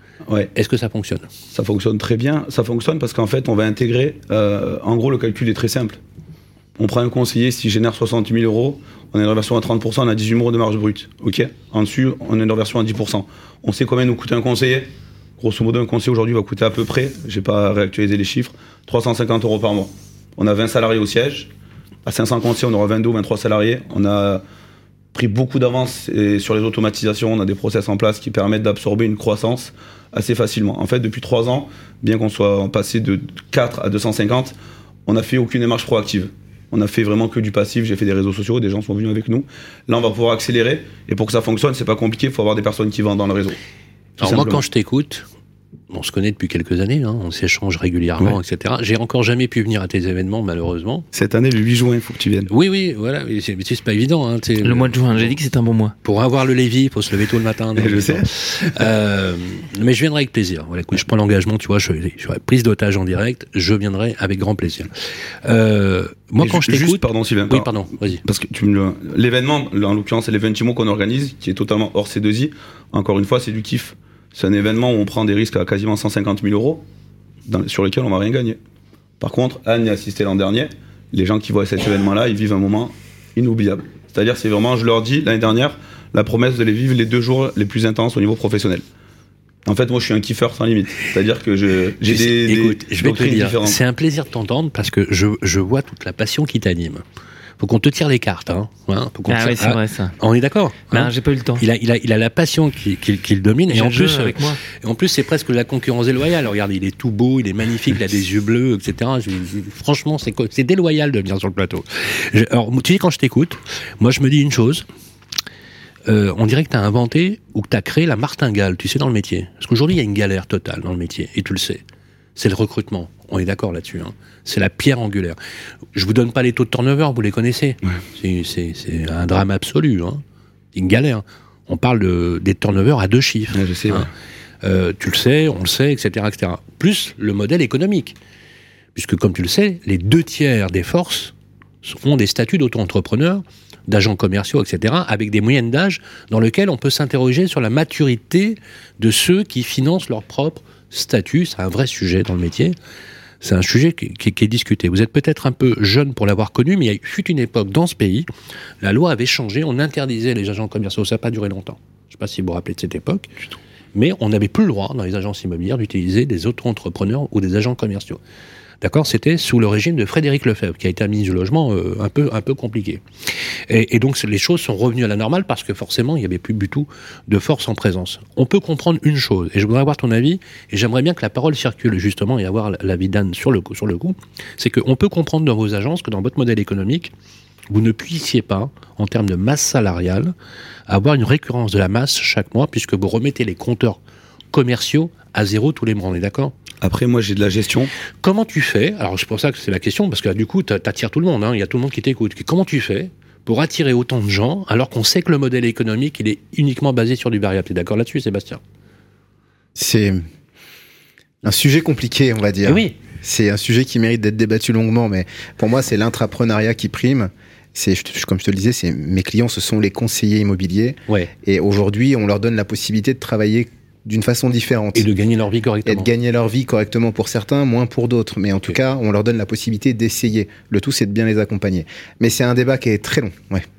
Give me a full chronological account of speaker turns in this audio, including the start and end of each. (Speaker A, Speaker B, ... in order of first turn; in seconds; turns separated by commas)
Speaker A: 0.6-1.3, Speaker B: 1.5-6.0, Speaker B: 6.8-14.9, Speaker B: 15.4-21.5, Speaker B: 22.1-24.4, Speaker B: 25.1-34.5, Speaker B: 35.1-43.6, Speaker B: 44.2-44.6, Speaker A: 44.2-45.3, Speaker A: 45.9-51.0, Speaker B: 51.1-52.5, Speaker A: 52.5-55.4, Speaker C: 54.6-55.9, Speaker A: 56.0-64.9, Speaker B: 57.8-58.8, Speaker A: 65.4-68.2, Speaker B: 66.4-67.7, Speaker B: 68.2-76.8, Speaker B: 77.5-78.6, Speaker B: 79.2-88.8, Speaker B: 89.7-93.8, Speaker A: 92.0-97.0, Speaker A: 97.6-114.9, Speaker C: 99.3-100.1, Speaker C: 100.9-101.7, Speaker C: 103.7-104.6, Speaker A: 116.1-121.8, Speaker A: 122.4-125.4, Speaker A: 126.0-130.2, Speaker A: 130.7-134.1, Speaker B: 133.5-134.1, Speaker A: 134.6-138.2, Speaker A: 138.9-152.8, Speaker A: 153.4-158.3, Speaker A: 158.8-163.4, Speaker A: 163.9-168.2, Speaker A: 168.8-173.0, Speaker A: 173.7-187.1, Speaker A: 187.7-190.3, Speaker A: 190.9-194.0, Speaker A: 194.5-196.6, Speaker B: 196.8-197.9, Speaker A: 198.2-208.6, Speaker D: 209.8-210.2, Speaker D: 211.4-225.1, Speaker A: 212.7-213.0, Speaker A: 224.9-226.1, Speaker D: 225.8-233.7